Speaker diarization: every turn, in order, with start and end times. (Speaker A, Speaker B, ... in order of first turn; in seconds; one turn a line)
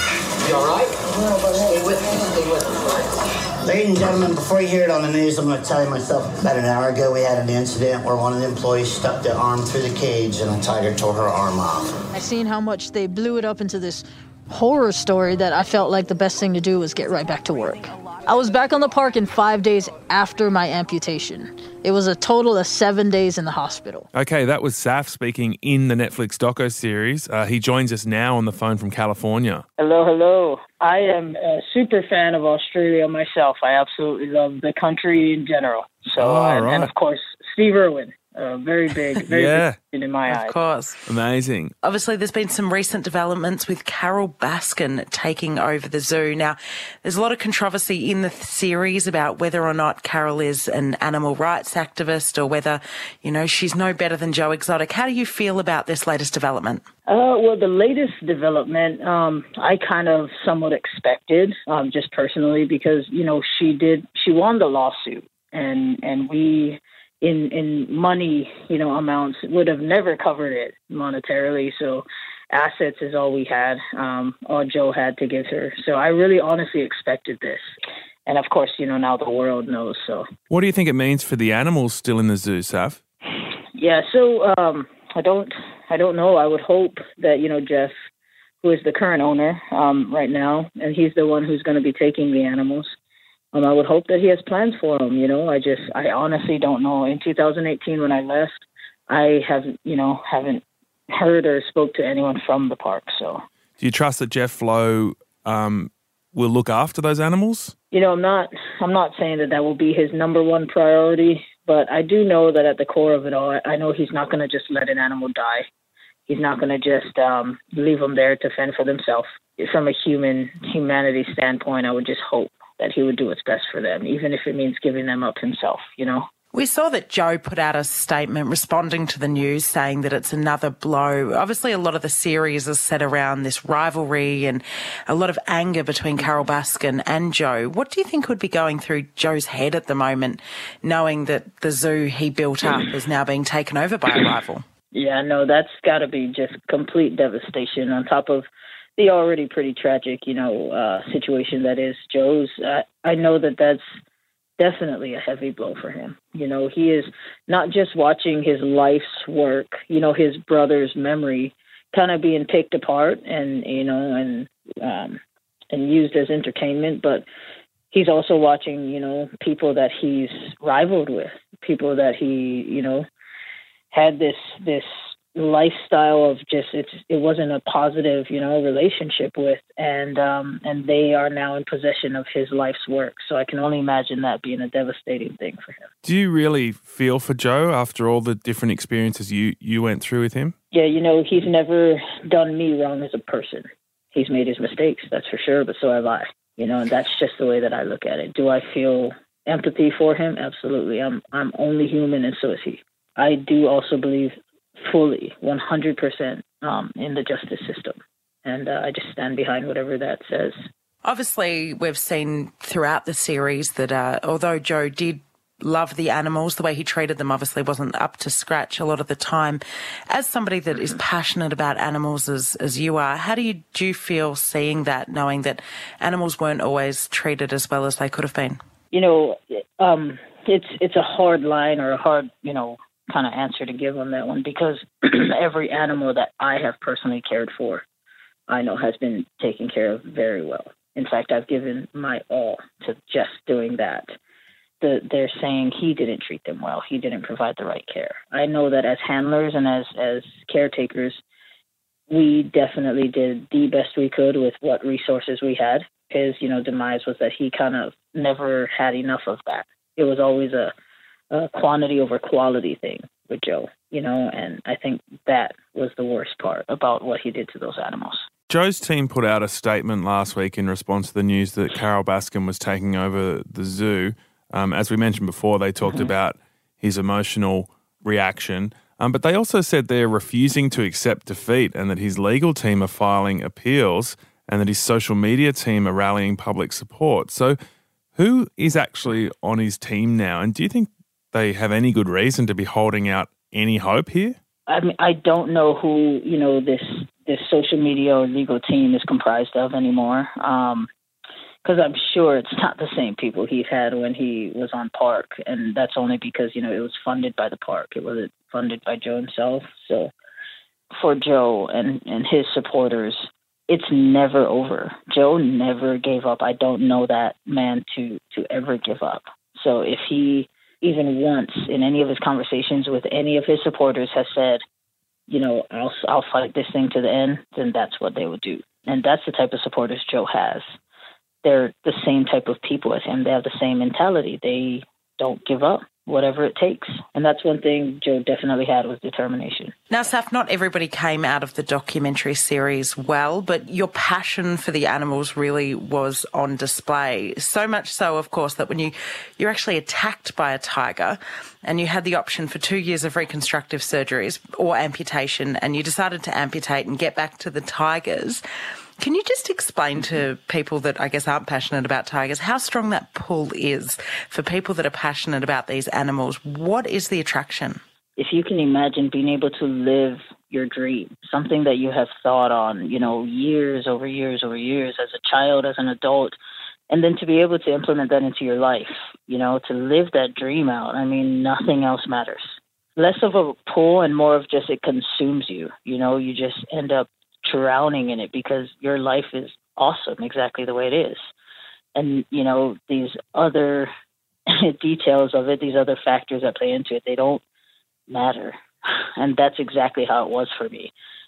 Speaker A: 0.4-2.9
Speaker A: 3.6-12.0
Speaker B: 12.1-24.1
Speaker C: 24.1-29.6
Speaker D: 29.8-40.5
Speaker C: 36.2-36.9
Speaker C: 39.2-39.8
Speaker E: 40.3-41.0
Speaker C: 41.1-41.7
Speaker E: 41.8-56.9
Speaker D: 57.1-77.7
Speaker D: 78.3-80.3
Speaker C: 80.5-83.0
Speaker D: 83.8-87.9
Speaker D: 88.6-92.9
Speaker D: 93.5-103.4
Speaker C: 103.8-107.8
Speaker D: 107.9-115.7
Speaker D: 116.3-126.3
Speaker E: 126.5-144.6
Speaker D: 144.9-153.8
Speaker D: 154.6-165.2
Speaker D: 165.7-167.2
Speaker D: 167.9-173.1
Speaker D: 173.9-185.9
Speaker C: 186.0-190.6
Speaker D: 190.7-210.6
Speaker E: 211.0-228.6
Speaker D: 220.7-221.0
Speaker D: 228.9-237.8
Speaker D: 238.5-244.1
Speaker D: 244.8-251.2
Speaker D: 252.1-260.7
Speaker D: 261.3-268.3
Speaker C: 268.5-287.6
Speaker D: 275.8-276.1
Speaker C: 288.2-294.4
Speaker D: 294.7-300.9
Speaker D: 301.6-310.1
Speaker D: 310.9-324.6
Speaker D: 325.3-330.7
Speaker D: 331.4-339.7
Speaker E: 339.9-358.4
Speaker E: 359.0-367.8
Speaker D: 368.2-376.4
Speaker D: 376.9-391.3
Speaker D: 391.9-393.9
Speaker D: 394.5-397.4
Speaker D: 398.1-400.9